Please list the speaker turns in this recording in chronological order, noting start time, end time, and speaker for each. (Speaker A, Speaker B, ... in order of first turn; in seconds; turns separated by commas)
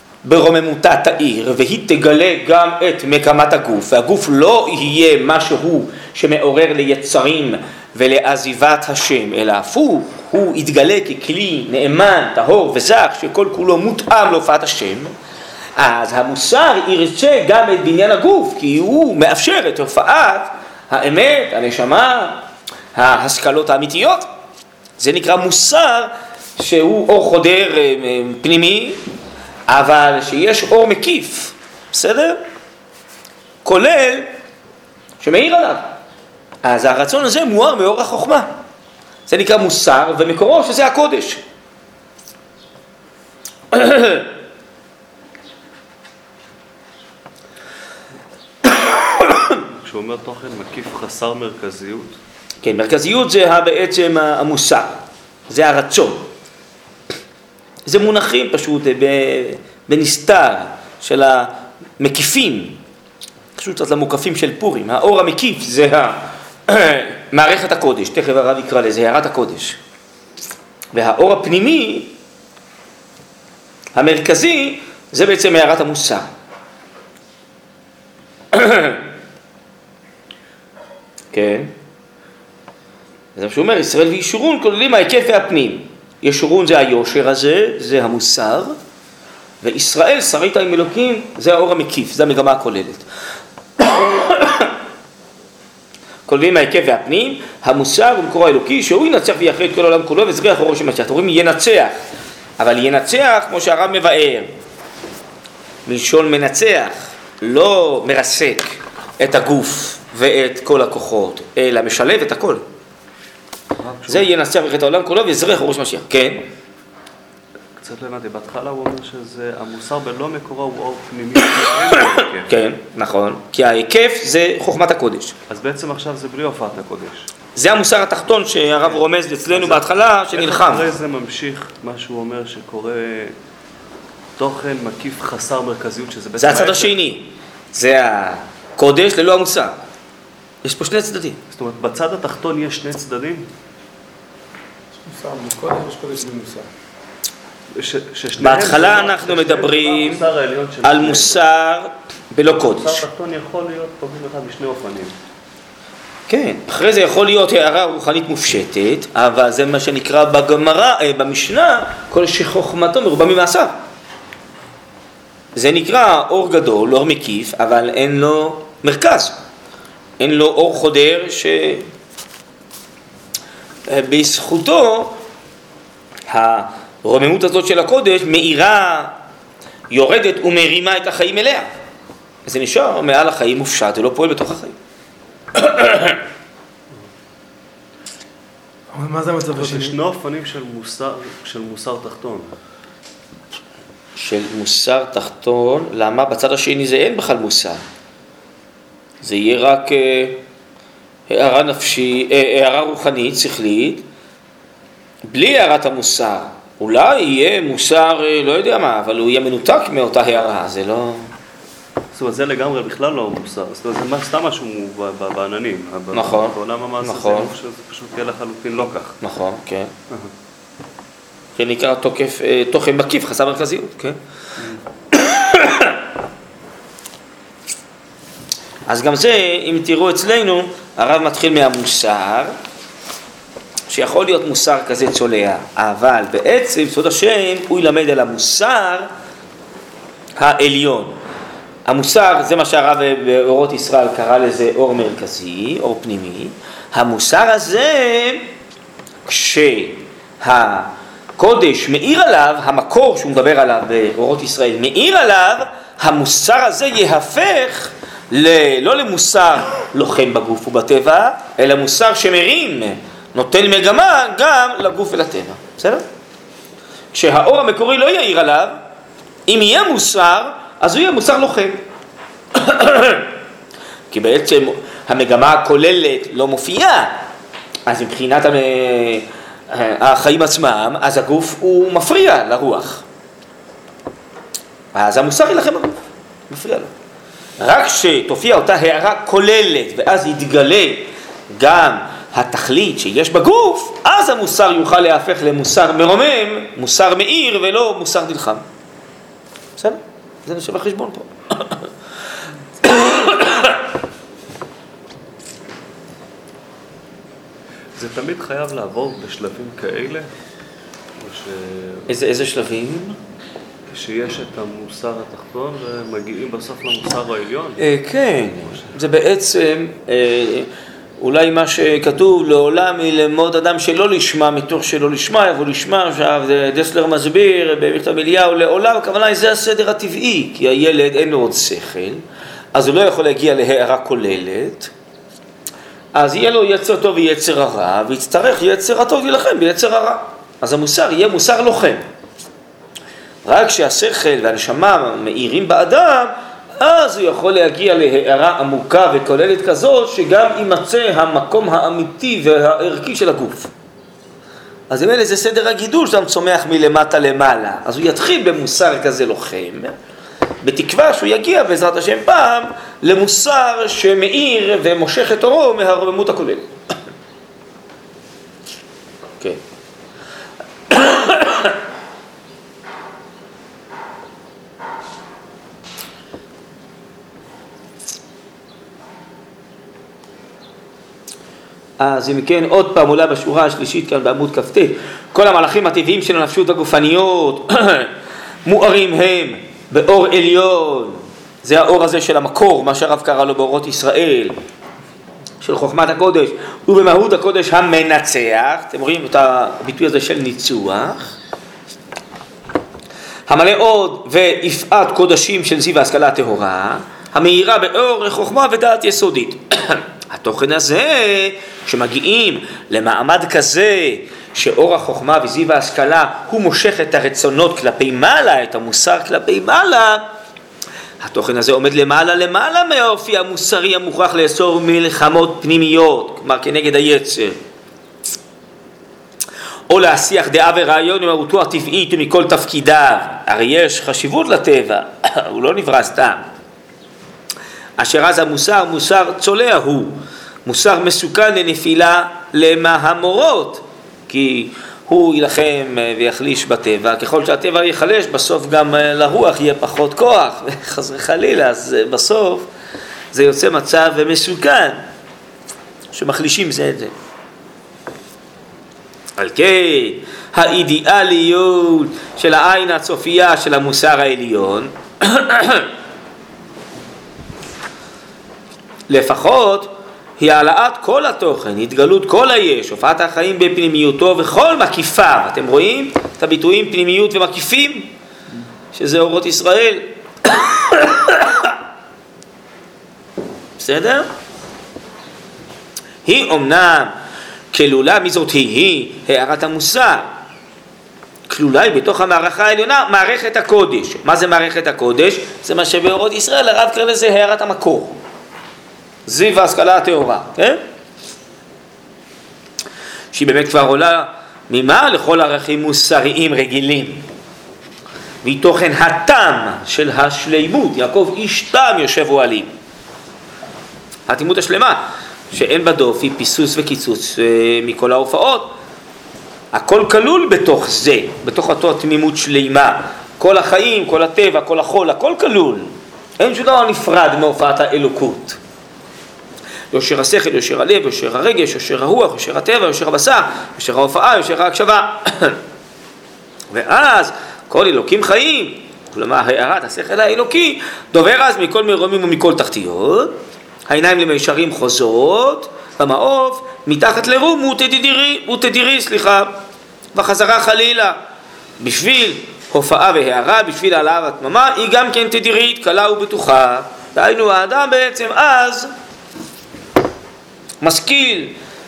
Speaker A: 0.2-15.1, Speaker A: 15.8-22.4, Speaker A: 22.9-24.3, Speaker A: 25.0-29.0, Speaker A: 29.7-32.4, Speaker A: 33.6-34.3, Speaker A: 35.2-36.0, Speaker A: 36.6-38.5, Speaker A: 39.3-41.4, Speaker A: 43.7-44.3, Speaker A: 48.9-49.5, Speaker B: 49.7-52.2, Speaker A: 52.6-56.3, Speaker A: 57.9-62.8, Speaker A: 63.6-69.8, Speaker A: 70.9-72.1, Speaker A: 73.9-76.3, Speaker A: 78.5-79.0, Speaker A: 81.3-81.7, Speaker A: 83.3-88.8, Speaker A: 89.6-93.0, Speaker A: 93.8-94.7, Speaker A: 96.2-102.0, Speaker A: 102.6-104.5, Speaker A: 105.8-112.6, Speaker B: 113.8-114.3, Speaker A: 114.1-116.5, Speaker B: 117.8-122.5, Speaker A: 121.9-125.3, Speaker B: 125.5-127.3, Speaker A: 127.5-130.9, Speaker B: 128.8-133.3, Speaker B: 134.4-136.9, Speaker A: 136.4-139.8, Speaker A: 140.6-141.4, Speaker B: 141.5-143.5, Speaker C: 144.9-146.7, Speaker B: 147.7-151.4, Speaker A: 148.4-150.2, Speaker A: 150.8-153.0, Speaker B: 152.6-155.1, Speaker A: 156.3-163.7, Speaker A: 165.5-169.4, Speaker A: 170.2-171.9, Speaker A: 173.9-175.2, Speaker A: 176.3-179.1, Speaker A: 179.9-181.7, Speaker A: 182.4-184.8, Speaker A: 185.5-186.2, Speaker C: 188.9-190.0, Speaker B: 189.5-192.5, Speaker A: 194.2-197.8, Speaker A: 199.2-200.4, Speaker A: 201.3-204.1, Speaker A: 205.2-211.3, Speaker B: 212.1-219.2, Speaker A: 216.1-217.5, Speaker A: 219.2-219.9, Speaker A: 221.6-224.2, Speaker A: 225.1-225.9, Speaker A: 228.9-232.5, Speaker A: 233.9-239.1, Speaker A: 240.4-241.2, Speaker A: 241.8-248.4, Speaker A: 249.2-266.0, Speaker A: 267.1-268.8, Speaker A: 269.5-271.8, Speaker A: 272.5-273.3, Speaker A: 274.1-277.2, Speaker A: 277.9-283.0, Speaker A: 284.9-286.0, Speaker A: 286.5-286.9, Speaker A: 287.6-298.6, Speaker A: 299.8-301.9, Speaker A: 302.8-303.8, Speaker B: 307.9-310.3, Speaker B: 311.2-312.2, Speaker A: 312.1-313.2, Speaker B: 313.9-317.8, Speaker A: 317.8-332.2, Speaker A: 332.7-334.9, Speaker A: 336.1-342.0, Speaker A: 343.4-353.7, Speaker A: 354.9-359.9, Speaker A: 360.6-366.7, Speaker A: 370.9-371.7, Speaker A: 382.0-388.1, Speaker A: 388.6-394.6, Speaker A: 395.6-401.3, Speaker A: 403.5-420.3, Speaker A: 421.2-427.6, Speaker A: 429.9-436.4, Speaker A: 438.0-452.7, Speaker A: 453.3-455.0, Speaker A: 456.1-457.1, Speaker A: 459.4-465.9, Speaker A: 469.1-478.1, Speaker A: 478.9-481.7, Speaker A: 483.8-484.3, Speaker A: 486.2-487.1, Speaker A: 487.7-490.3, Speaker A: 491.5-498.2, Speaker A: 499.3-500.8, Speaker A: 503.3-507.2, Speaker A: 508.4-512.7, Speaker A: 514.3-518.7, Speaker A: 519.7-528.6, Speaker A: 529.9-535.6, Speaker A: 536.7-549.6, Speaker A: 550.1-551.2, Speaker A: 551.8-558.9, Speaker A: 560.8-561.5